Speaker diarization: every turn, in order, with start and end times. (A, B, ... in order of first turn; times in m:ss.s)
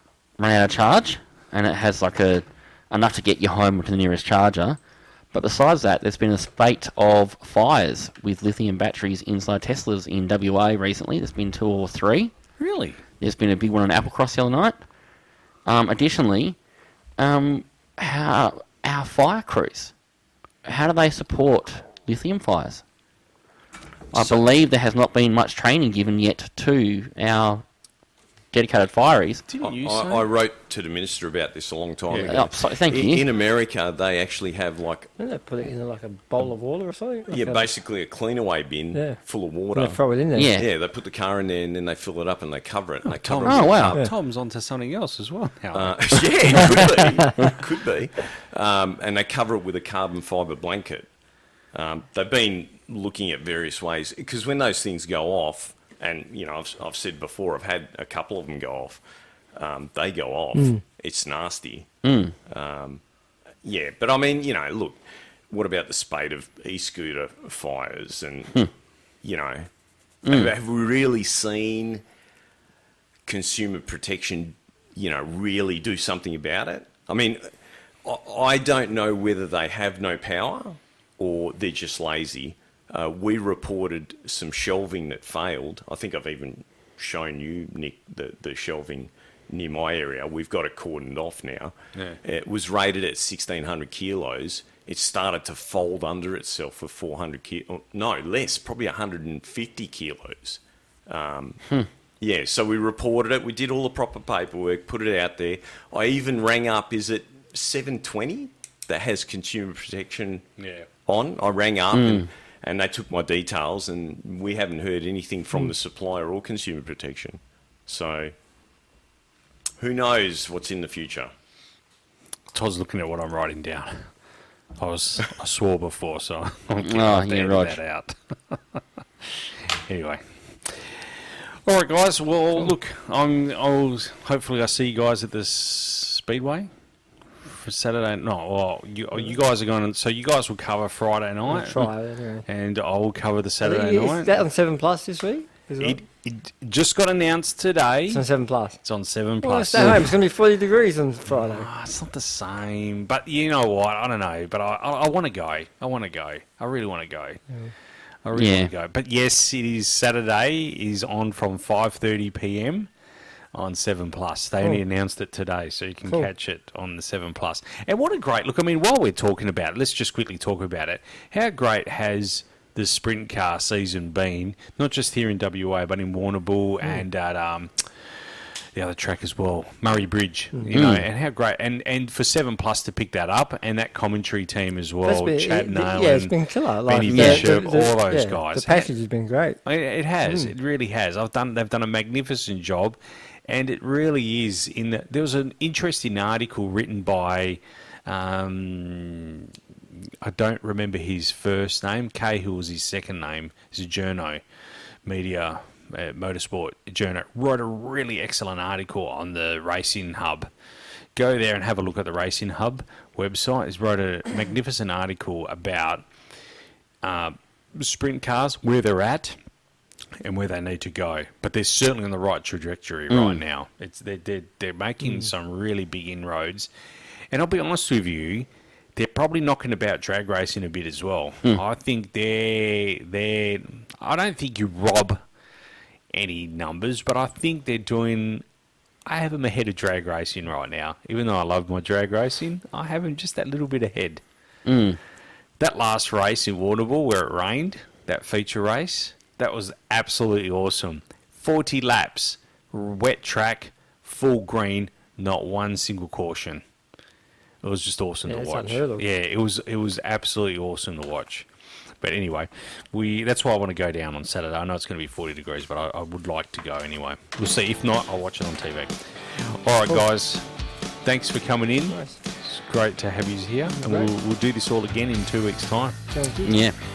0:00.4-0:04.8 A
0:05.3-0:12.3 A
0:12.6-0:13.0 B
0:13.2-0:14.8 A
0:15.6-0:16.6 A
0:17.2-0:19.9 A
0:20.6-0:22.8 A
0:24.1-0:27.6 A
0:28.5-0:29.4 A
0:29.5-0:30.3 B
0:29.6-0:35.1 C
0:32.1-0:33.3 A
0:35.2-0:37.7 D
0:37.3-0:40.0 C
0:39.7-0:40.5 D
0:40.3-0:40.7 A
0:40.5-0:44.0 C
0:43.0-0:47.0 B
0:43.4-0:44.0 A
0:45.7-0:51.1 C
0:51.7-0:59.0 C
0:59.5-1:01.9 C
1:02.0-1:02.3 A
1:02.4-1:03.0 C
1:03.6-1:08.7 C
1:09.2-1:09.7 C
1:10.2-1:10.5 A
1:10.2-1:12.0 C
1:13.2-1:17.5 C
1:18.0-1:41.6 C
1:31.9-1:32.2 B
1:42.2-1:50.4 C
1:50.6-1:50.9 B
1:51.0-1:58.3 C
1:51.9-1:52.3 A
1:59.8-2:01.3 C
2:02.5-2:04.1 B
2:04.8-2:16.7 B
2:06.8-2:07.8 A
2:17.4-2:21.9 B
2:21.5-2:22.4 D
2:22.4-2:24.3 B
2:23.6-2:26.0 D
2:25.8-2:28.2 B
2:28.1-2:28.8 D
2:28.8-2:30.1 B
2:29.4-2:31.7 D
2:31.3-2:37.4 B
2:38.2-2:42.9 B
2:38.3-2:38.7 A
2:43.5-2:58.2 B
2:58.7-3:08.9 B
3:00.7-3:01.0 A
3:05.0-3:09.6 D
3:07.0-3:07.6 A
3:09.6-3:24.4 B
3:10.3-3:10.5 D
3:25.0-3:30.5 B
3:31.1-3:36.1 B
3:37.0-3:39.4 B
3:40.2-3:46.7 B
3:43.1-3:43.4 A
3:47.3-3:55.2 B
3:56.1-3:58.4 B
3:59.1-4:04.2 B
4:04.6-4:05.0 A
4:05.6-4:16.6 B
4:17.6-4:21.5 B
4:18.3-4:19.0 D
4:22.0-4:30.5 B
4:31.0-4:36.0 B
4:31.9-4:32.2 D
4:33.8-4:34.1 D
4:36.1-4:36.6 D
4:36.4-4:36.7 A